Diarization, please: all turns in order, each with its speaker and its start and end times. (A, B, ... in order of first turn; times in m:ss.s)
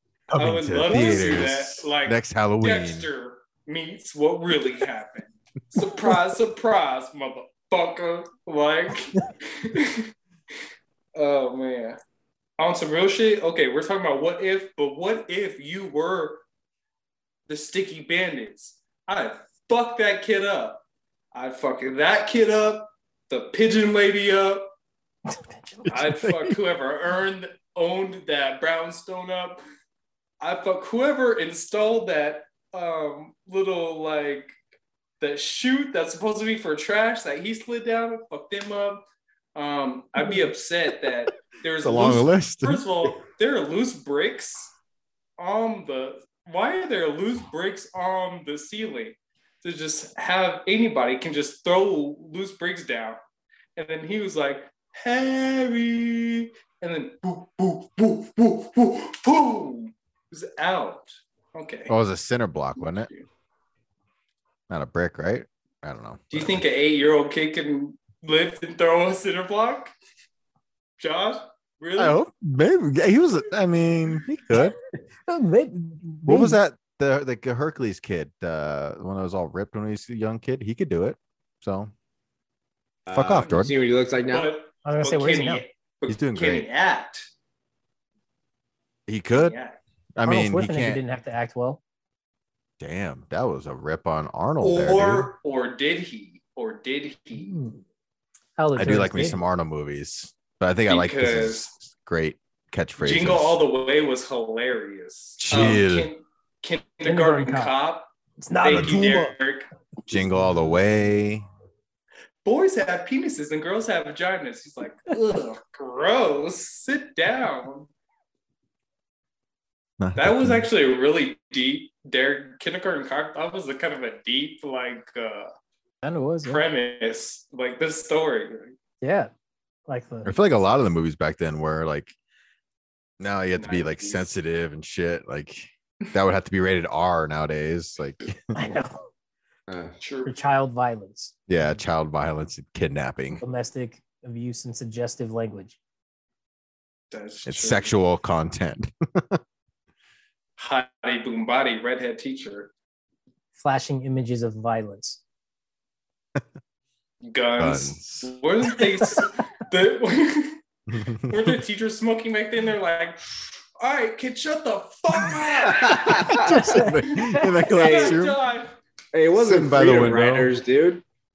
0:00.3-0:03.1 A
0:00.4-0:10.1 B
0:11.2-0:12.0 B
0:12.6-0:16.4 B
0:17.5-0:24.7 B
0:25.3-0:26.0 C
0:25.9-0:29.6 B
0:25.9-0:26.6 A
0:30.4-0:34.6 B
0:35.2-0:39.0 B
0:39.6-0:44.7 B
0:41.8-0:42.8 A
0:45.4-0:53.2 B
0:53.8-1:01.9 B
1:01.9-1:03.1 A
1:02.8-1:03.3 B
1:04.7-1:06.6 A
1:06.3-1:09.9 B
1:11.0-1:12.2 B
1:12.0-1:14.8 A
1:15.3-1:16.6 C
1:16.3-1:21.9 A
1:23.1-1:24.5 D
1:23.1-1:23.7 A
1:24.3-1:27.3 B
1:24.8-1:25.6 C
1:26.1-1:26.7 A
1:29.1-1:29.6 A
1:29.3-1:29.8 B
1:30.2-1:31.0 A
1:30.2-1:31.8 C
1:32.8-1:35.3 A
1:34.6-1:37.6 B
1:37.3-1:37.8 C
1:38.6-1:39.4 C
1:38.8-1:43.6 A
1:40.9-1:41.7 B
1:43.0-1:48.1 B
1:45.4-1:46.1 A
1:47.0-1:47.8 C
1:48.4-1:49.3 C
1:48.6-1:49.7 B
1:48.7-1:49.1 A
1:50.1-1:51.5 A
1:52.4-1:57.9 B
2:00.0-2:00.6 A
2:00.2-2:05.5 B
2:06.0-2:06.6 C
2:06.4-2:08.8 B
2:09.0-2:09.3 C
2:09.9-2:10.4 C
2:10.2-2:12.1 A
2:13.2-2:18.6 A
2:13.6-2:14.3 B
2:18.6-2:19.1 C
2:19.7-2:20.0 D
2:20.0-2:20.3 B
2:20.3-2:21.7 C
2:21.5-2:23.4 A
2:23.4-2:25.8 C
2:27.1-2:27.9 B
2:27.5-2:29.4 A
2:30.6-2:32.7 B
2:33.6-2:35.2 C
2:37.2-2:40.6 B
2:37.6-2:38.3 A
2:40.9-2:41.6 A
2:41.2-2:46.5 B
2:45.7-2:46.6 D
2:46.1-2:48.4 A
2:46.3-2:47.6 C
2:47.0-2:48.8 B
2:47.7-2:48.2 D
2:49.1-2:51.0 D
2:49.4-2:50.5 A